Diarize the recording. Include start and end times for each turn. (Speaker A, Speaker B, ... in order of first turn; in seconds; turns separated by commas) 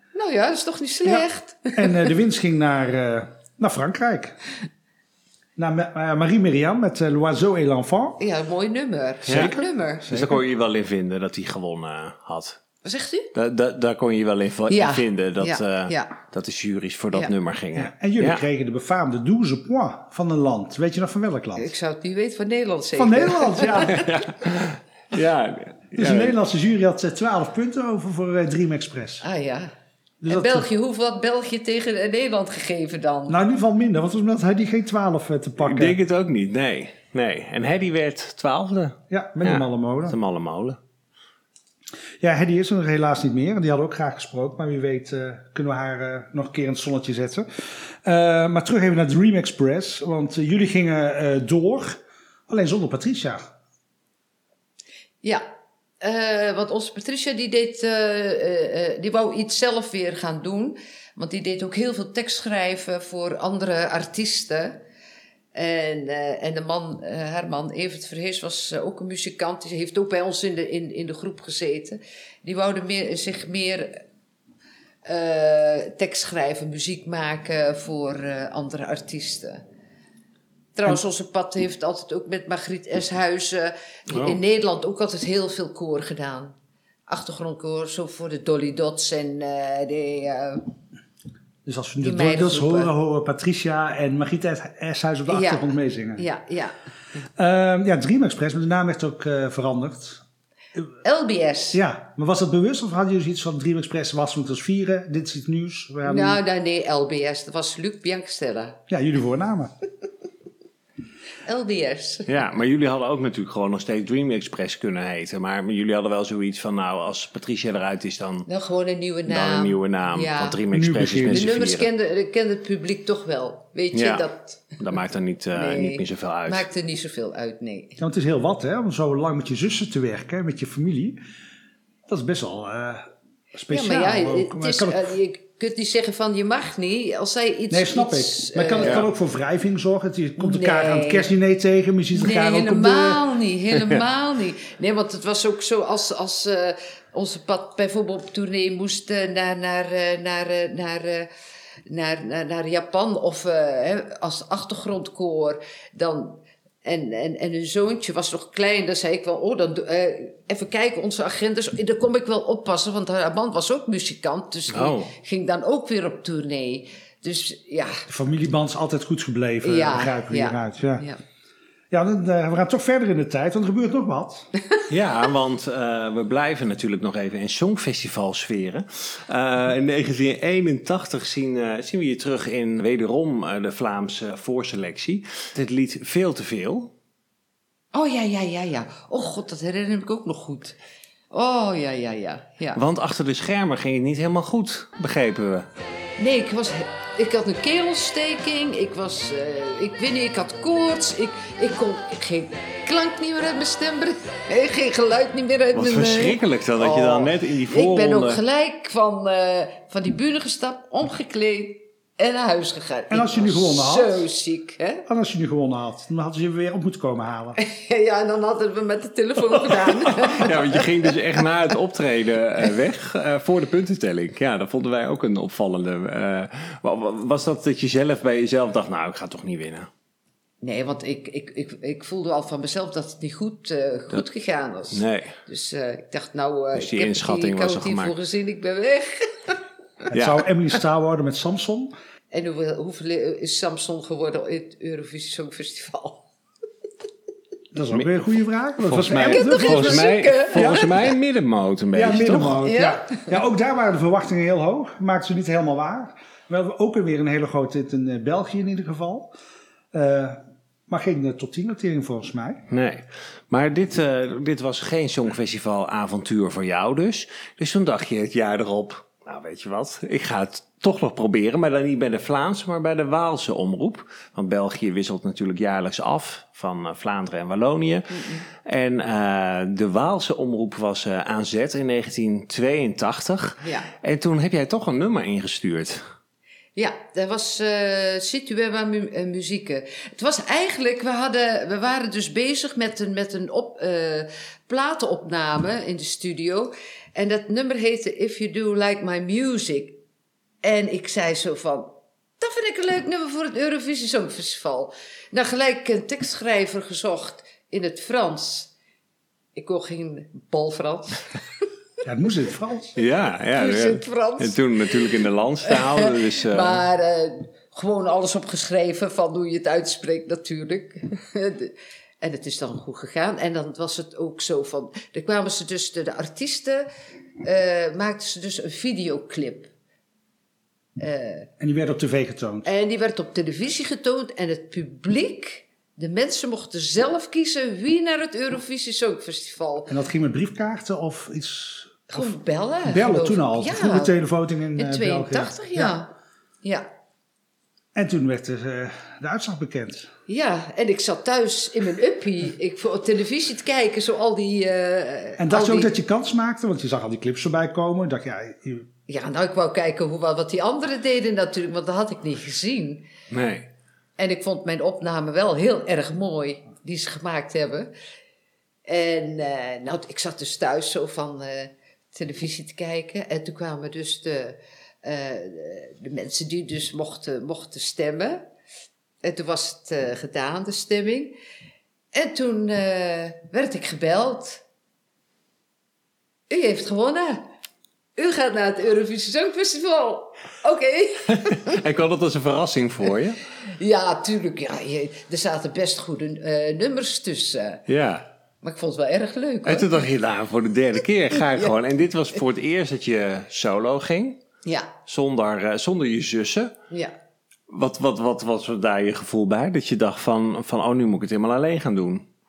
Speaker A: 0.1-2.1, Speaker B: 1.1-4.4, Speaker B: 5.6-8.2, Speaker A: 8.2-10.2, Speaker B: 9.3-10.4, Speaker C: 9.3-9.5, Speaker C: 10.1-12.6, Speaker A: 12.8-13.3, Speaker C: 13.3-18.4, Speaker A: 14.7-16.2, Speaker B: 17.8-21.7, Speaker A: 21.6-24.1, Speaker B: 22.9-24.0, Speaker C: 23.9-26.4, Speaker B: 26.0-29.2, Speaker A: 29.2-29.7, Speaker B: 30.2-30.7, Speaker A: 30.3-33.4, Speaker B: 33.3-36.0, Speaker C: 35.6-40.8, Speaker B: 39.1-40.2, Speaker B: 42.2-47.5, Speaker B: 48.0-53.5, Speaker A: 56.0-64.8, Speaker A: 65.5-74.0, Speaker A: 75.1-79.6, Speaker A: 80.8-86.5, Speaker C: 84.1-84.4, Speaker A: 87.1-90.7, Speaker B: 91.7-96.3, Speaker A: 92.0-92.9, Speaker A: 95.3-96.8, Speaker B: 97.4-100.2, Speaker A: 101.0-101.8, Speaker B: 101.7-106.4, Speaker A: 106.0-108.8, Speaker B: 108.9-109.7, Speaker A: 111.5-112.3, Speaker C: 112.3-118.5, Speaker A: 118.5-120.6, Speaker C: 119.3-121.9, Speaker B: 120.7-121.5, Speaker A: 121.3-124.8, Speaker C: 123.9-126.7, Speaker A: 125.5-128.0, Speaker B: 128.0-131.2, Speaker B: 132.1-135.1, Speaker A: 133.7-139.0, Speaker B: 137.7-143.2, Speaker C: 138.8-139.1, Speaker A: 140.4-141.3, Speaker A: 142.2-151.3, Speaker A: 151.9-168.1, Speaker C: 164.7-165.1, Speaker B: 168.1-171.1, Speaker A: 169.6-171.2, Speaker B: 171.9-174.5, Speaker C: 174.9-186.9, Speaker A: 187.9-190.8, Speaker A: 191.3-192.8, Speaker C: 192.8-195.7, Speaker A: 196.2-215.1, Speaker C: 205.7-208.4, Speaker B: 213.1-214.3, Speaker B: 215.1-217.6, Speaker A: 217.6-221.1, Speaker C: 219.8-229.9, Speaker A: 230.6-239.6, Speaker C: 234.9-235.4, Speaker C: 236.8-238.2, Speaker B: 240.1-241.9, Speaker C: 240.1-240.5, Speaker A: 242.3-246.2, Speaker B: 247.7-250.9, Speaker C: 248.8-252.6, Speaker A: 249.1-250.9, Speaker B: 251.9-259.3, Speaker A: 252.6-253.3, Speaker B: 259.9-262.6, Speaker C: 262.7-286.0, Speaker A: 278.1-278.4, Speaker A: 283.6-283.9, Speaker A: 286.8-300.0, Speaker A: 300.6-308.7, Speaker A: 309.6-311.4, Speaker B: 312.0-313.0, Speaker C: 313.0-316.8, Speaker A: 313.6-326.9, Speaker A: 327.4-329.7, Speaker A: 331.0-331.5, Speaker B: 331.6-332.7, Speaker A: 332.6-339.9, Speaker B: 339.9-342.3, Speaker A: 342.1-344.1, Speaker B: 342.9-346.0, Speaker A: 344.8-346.9, Speaker B: 347.9-350.1, Speaker A: 350.3-355.9, Speaker B: 355.4-358.9, Speaker A: 359.1-363.1, Speaker C: 363.3-363.7, Speaker A: 364.2-367.9, Speaker A: 368.9-378.5, Speaker A: 379.2-381.3, Speaker A: 382.1-384.6, Speaker A: 386.5-387.5, Speaker A: 388.2-391.8, Speaker C: 391.4-393.4, Speaker A: 393.8-397.8, Speaker C: 397.9-398.2, Speaker A: 398.6-399.9, Speaker C: 399.6-404.4, Speaker A: 404.6-404.9, Speaker C: 405.1-406.7, Speaker C: 407.7-412.3